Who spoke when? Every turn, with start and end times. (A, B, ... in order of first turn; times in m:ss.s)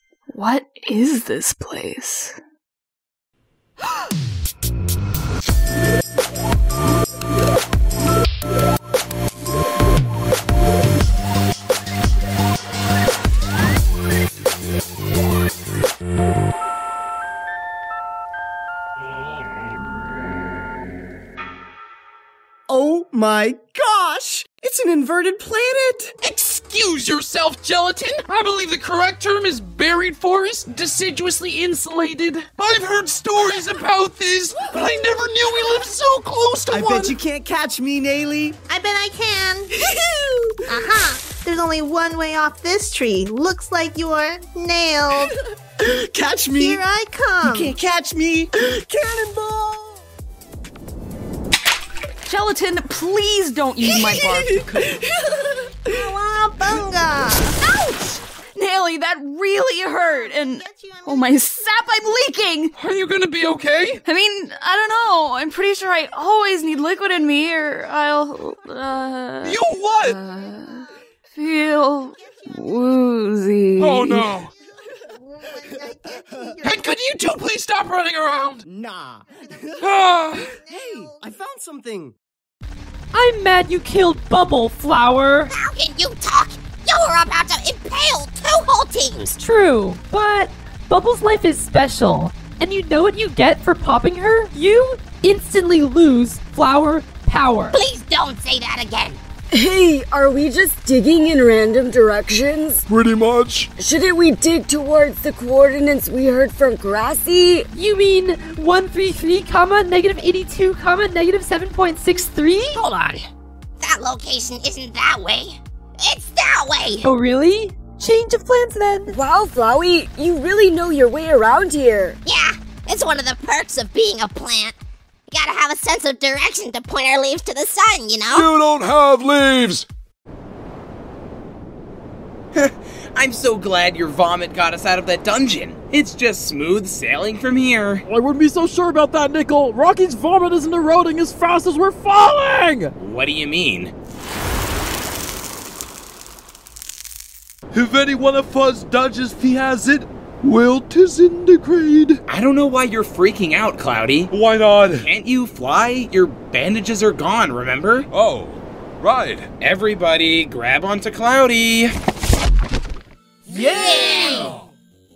0:00.3-0:02.4 A
0:22.7-0:26.1 B
0:26.2-0:37.2 C
0:36.7-0:38.6 B
0:38.7-0:39.9 D
0:40.7-0:45.4 D
0:45.8-0:46.8 B
0:46.6-0:47.8 D
0:47.4-0:50.0 B
0:52.3-0:55.0 A
0:55.0-0:55.5 B
0:55.9-0:57.5 D
0:56.6-0:57.1 B
0:57.6-1:02.7 A
1:00.1-1:01.4 D
1:02.8-1:04.0 C
1:04.0-1:14.3 A
1:09.4-1:10.2 C
1:13.8-1:14.5 C
1:15.2-1:16.8 D
1:16.6-1:18.6 C
1:18.7-1:19.9 B
1:19.8-1:20.5 C
1:20.4-1:21.2 D
1:20.6-1:22.2 B
1:23.1-1:25.5 E
1:25.5-1:29.3 F
1:29.3-1:37.8 E
1:37.7-1:39.2 F
1:39.5-1:42.8 G
1:42.9-1:43.7 H
1:43.8-1:47.7 G
1:47.7-1:52.8 E
1:52.7-1:53.3 F
1:53.8-1:57.1 F
1:57.0-1:59.2 E
1:59.1-2:02.2 G
2:02.2-2:04.8 F
2:05.3-2:08.5 F
2:08.3-2:09.9 H
2:12.5-2:18.0 I
2:18.0-2:22.9 J
2:23.0-2:23.9 I
2:27.7-2:32.2 H
2:32.3-2:34.3 I
2:34.3-2:35.0 H
2:35.1-2:38.1 I
2:38.1-2:39.5 H
2:39.6-2:41.9 I
2:43.5-2:44.5 F